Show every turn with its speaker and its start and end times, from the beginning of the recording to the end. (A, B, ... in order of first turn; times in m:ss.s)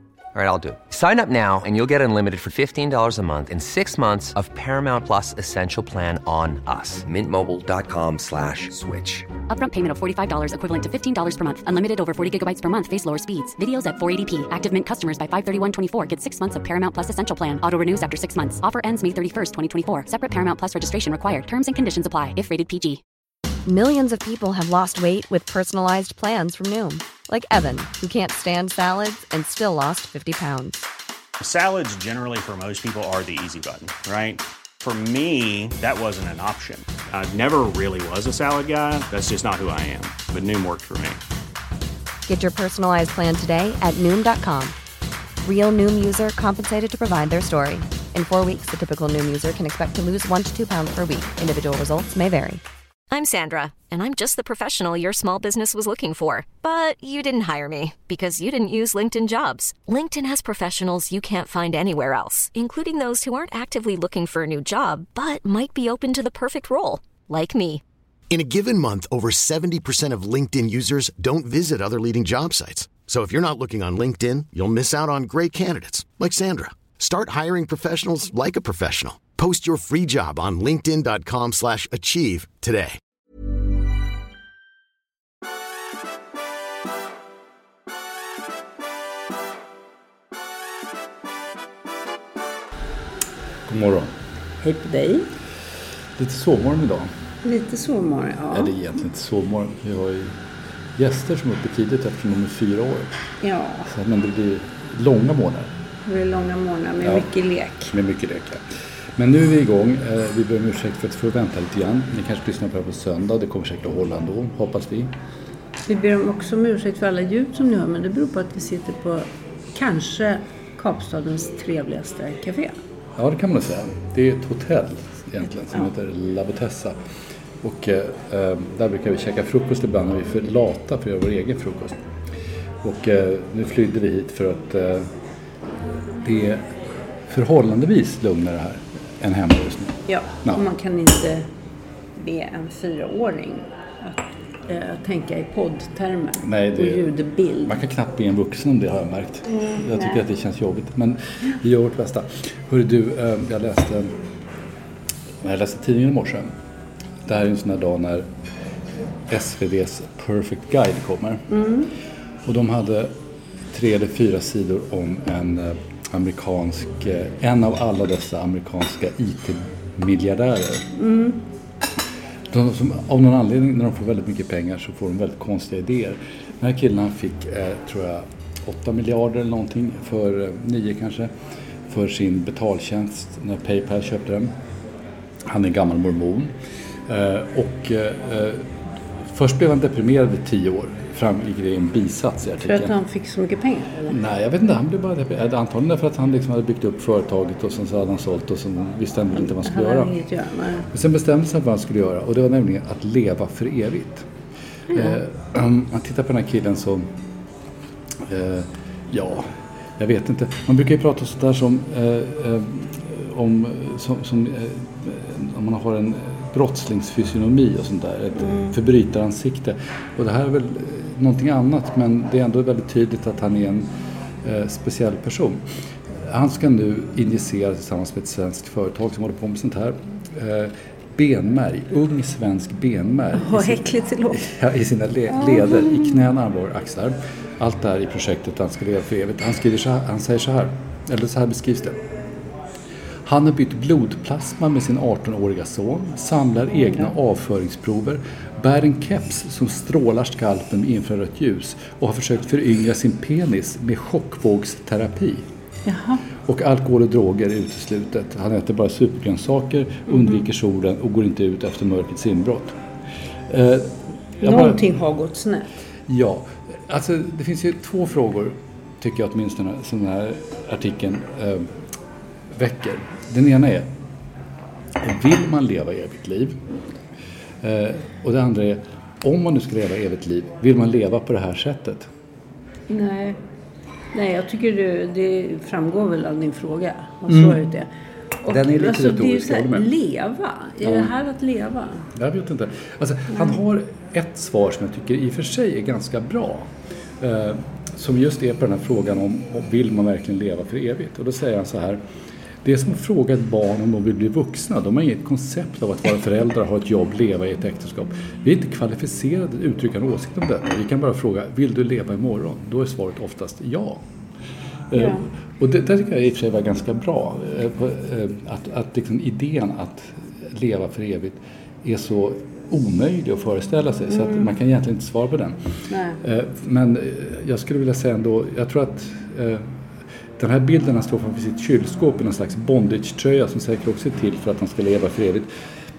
0:00.3-0:09.3 A
0:09.5-0:23.0 B
0:23.7-0:30.8 C
0:31.4-0:41.2 D
0:42.3-0:44.8 C
0:45.4-0:52.6 C
0:53.1-1:07.8 E
1:08.3-1:23.0 F
1:33.7-1:34.1 G
1:34.6-1:35.3 H
1:36.2-1:37.1 G
1:37.4-1:38.7 H
1:38.5-1:40.4 G
1:41.0-1:43.1 G
1:43.4-1:43.9 H
1:43.9-1:45.7 G
1:46.1-1:47.9 H
1:47.9-1:48.6 G
1:49.2-1:55.1 G
1:55.9-2:02.8 H
2:03.2-2:07.0 G
2:07.6-2:12.0 G
2:12.8-2:15.1 G
2:16.2-2:16.7 G
2:17.3-2:20.6 G
2:20.1-2:21.5 H
2:22.2-2:27.7 H
2:26.4-2:34.1 G
2:29.6-2:30.2 H
2:35.4-2:36.5 G
2:37.3-2:38.3 G
2:39.3-2:41.4 G
2:41.5-2:41.9 H
2:42.5-2:43.1 G
2:43.7-2:50.8 G
2:51.0-2:51.4 H
2:52.5-3:01.3 G
3:01.9-3:04.5 G
3:05.4-3:06.5 G
3:07.1-3:08.7 G
3:09.3-3:12.9 G
3:12.6-3:14.2 H
3:14.1-3:20.2 G
3:19.4-3:20.9 H
3:20.9-3:24.3 G
3:24.9-3:27.1 G
3:28.2-3:43.9 G
3:38.4-3:38.8 H
3:44.4-3:45.6 G
3:46.2-4:02.0 G
3:53.3-3:54.4 H
3:55.4-3:56.0 H
4:03.2-4:15.4 G
4:15.9-4:16.2 H
4:16.4-4:22.8 G
4:23.5-4:24.8 G
4:24.4-4:25.7 H
4:26.1-4:31.7 G
4:32.5-4:33.9 G
4:35.0-4:36.6 G
4:37.6-4:42.1 G
4:42.9-4:43.4 H
4:44.1-4:47.9 H
4:47.3-4:47.6 G
4:48.4-4:52.1 H
4:48.5-4:49.9 G
4:50.8-4:51.1 G
4:52.2-4:56.7 G
4:57.2-5:02.0 G
5:02.6-5:14.0 G
5:14.9-5:25.6 G
5:15.0-5:15.2 H
5:24.1-5:24.5 H
5:25.9-5:26.2 H
5:26.2-5:29.6 G
5:30.4-5:35.5 G